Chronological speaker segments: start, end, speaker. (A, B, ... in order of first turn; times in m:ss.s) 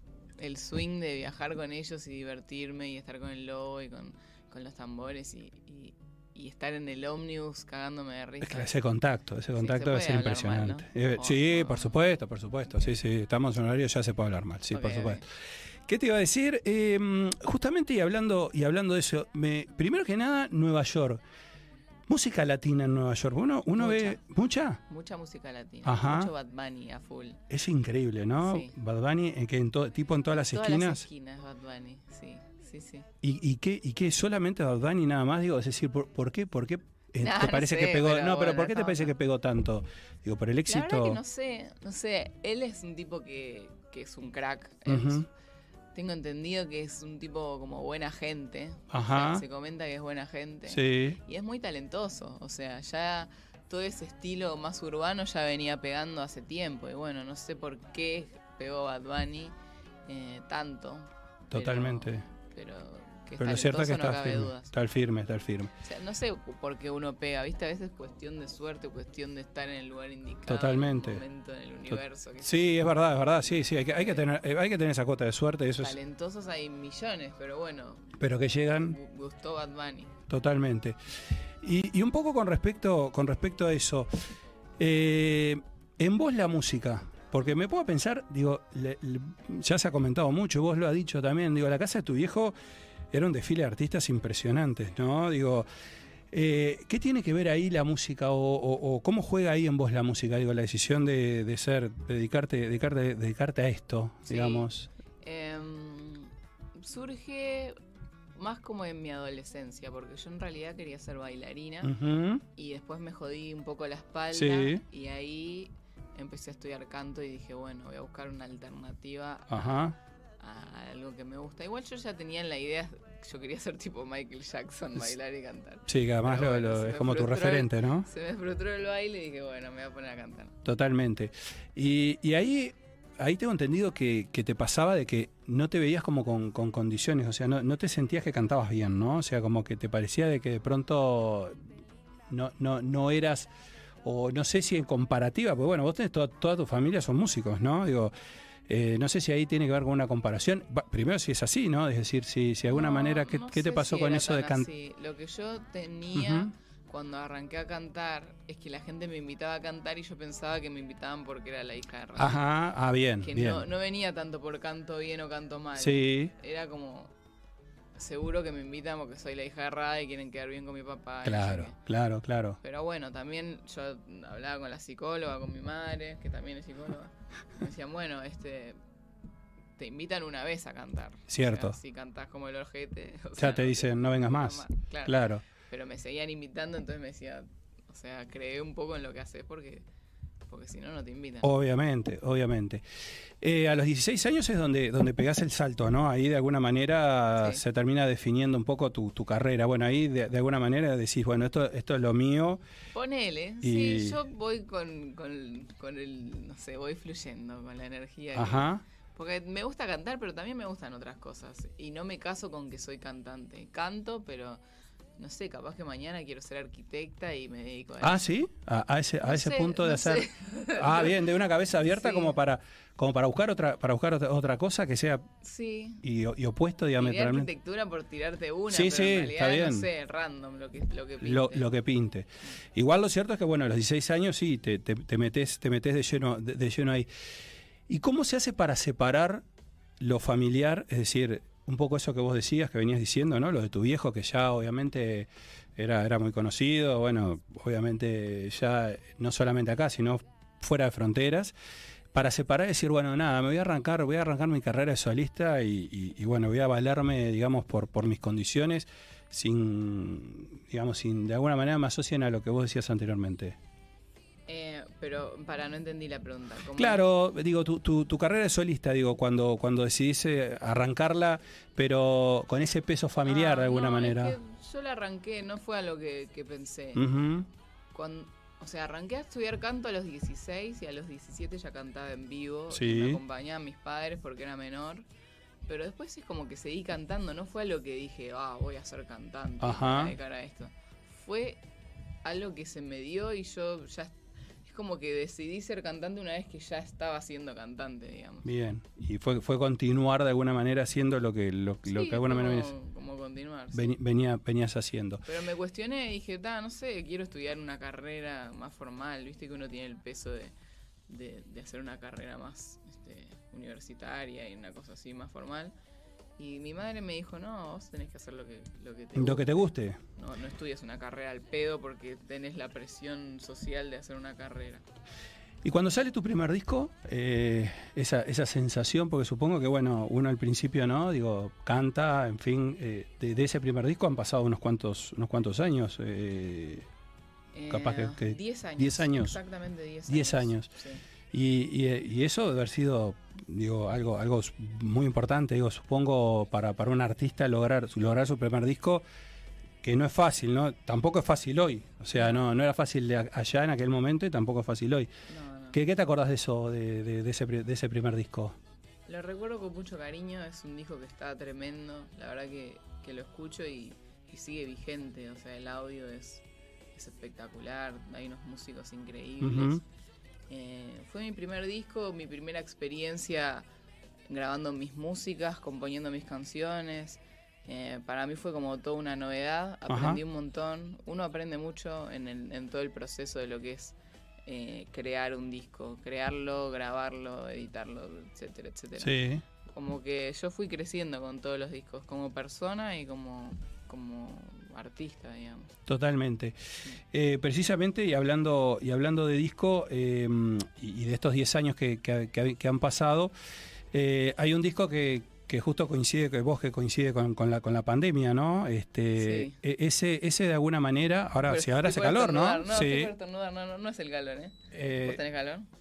0:00.4-0:08.7 A
0:08.4-0:15.3 B
0:09.6-0:12.0 A
0:14.7-0:15.2 A
0:15.9-0:21.2 B
0:22.1-0:24.8 B
0:23.8-0:24.2 A
0:24.9-0:27.4 A
0:25.8-0:26.3 B
0:27.5-0:31.0 B
0:28.4-0:28.7 A
0:30.3-0:33.1 A
0:33.2-0:41.2 B
0:37.2-0:39.1 A
0:40.7-0:45.3 A
0:44.9-0:45.3 B
0:46.0-0:59.6 A
0:48.9-0:49.4 B
0:50.7-0:51.2 B
1:00.1-1:04.7 A
1:01.5-1:02.2 B
1:03.4-1:05.7 B
1:05.8-1:12.8 A
1:10.5-1:11.2 B
1:11.9-1:16.0 B
1:13.9-1:14.2 A
1:15.8-1:18.1 A
1:18.2-1:19.0 B
1:18.8-1:20.1 A
1:20.3-1:21.0 B
1:21.6-1:24.1 B
1:24.8-1:32.6 B
1:33.1-1:35.7 B
1:36.3-1:44.9 B
1:44.3-1:44.7 A
1:45.2-1:47.8 A
1:48.4-1:52.0 A
1:51.8-1:52.4 B
1:52.6-1:59.8 A
1:54.3-1:54.8 B
1:59.5-2:00.0 B
2:00.4-2:10.6 A
2:05.9-2:08.1 B
2:10.6-2:21.6 B
2:22.3-2:23.5 B
2:24.0-2:28.1 B
2:28.7-2:34.7 B
2:32.6-2:42.4 A
2:36.2-2:36.5 B
2:42.2-2:43.7 B
2:43.2-2:47.1 A
2:45.8-2:46.3 B
2:48.0-2:51.8 A
2:51.2-2:52.6 B
2:52.6-2:58.8 A
2:59.8-3:09.9 A
3:01.3-3:01.8 B
3:03.4-3:05.4 B
3:10.5-3:11.5 A
3:11.4-3:12.8 B
3:13.4-3:22.6 B
3:22.9-3:34.6 A
3:23.6-3:24.2 B
3:28.4-3:28.8 B
3:35.2-3:38.2 A
3:38.0-3:45.3 B
3:39.2-3:41.2 A
3:41.8-3:42.4 A
3:45.4-3:46.0 A
3:46.0-3:47.5 B
3:47.0-3:51.7 A
3:48.7-3:49.9 B
3:51.2-3:57.1 B
3:57.9-3:59.4 B
4:00.0-4:11.5 B
4:12.1-4:23.6 B
4:24.5-4:27.0 A
4:26.8-4:34.4 B
4:33.2-4:37.0 A
4:37.0-4:37.5 B
4:37.9-4:45.1 A
4:42.7-4:43.2 B
4:45.7-4:51.6 A
4:49.6-4:50.2 B
4:52.2-4:58.5 A
4:58.4-5:02.7 B
5:01.8-5:04.0 A
5:03.7-5:05.2 B
5:05.3-5:10.5 A
5:11.1-5:15.7 A
5:16.4-5:24.8 A
5:19.1-5:20.0 B
5:25.6-5:36.9 B
5:37.5-5:41.0 A
5:37.7-5:39.4 B
5:40.1-5:40.7 B
5:41.3-5:49.0 B
5:49.8-5:55.1 B
5:52.2-5:52.4 A
5:55.3-5:55.8 A
5:55.7-5:58.6 B
5:59.1-6:06.4 A
6:07.0-6:09.8 A
6:09.4-6:09.8 B
6:10.5-6:13.7 A
6:14.3-6:29.2 A
6:19.9-6:20.2 B
6:29.0-6:29.4 B
6:29.7-6:35.8 A
6:35.9-6:36.6 B
6:37.1-6:43.3 B
6:43.9-6:53.1 B
6:49.2-6:49.6 A
6:51.5-6:55.7 A
6:54.7-6:55.2 B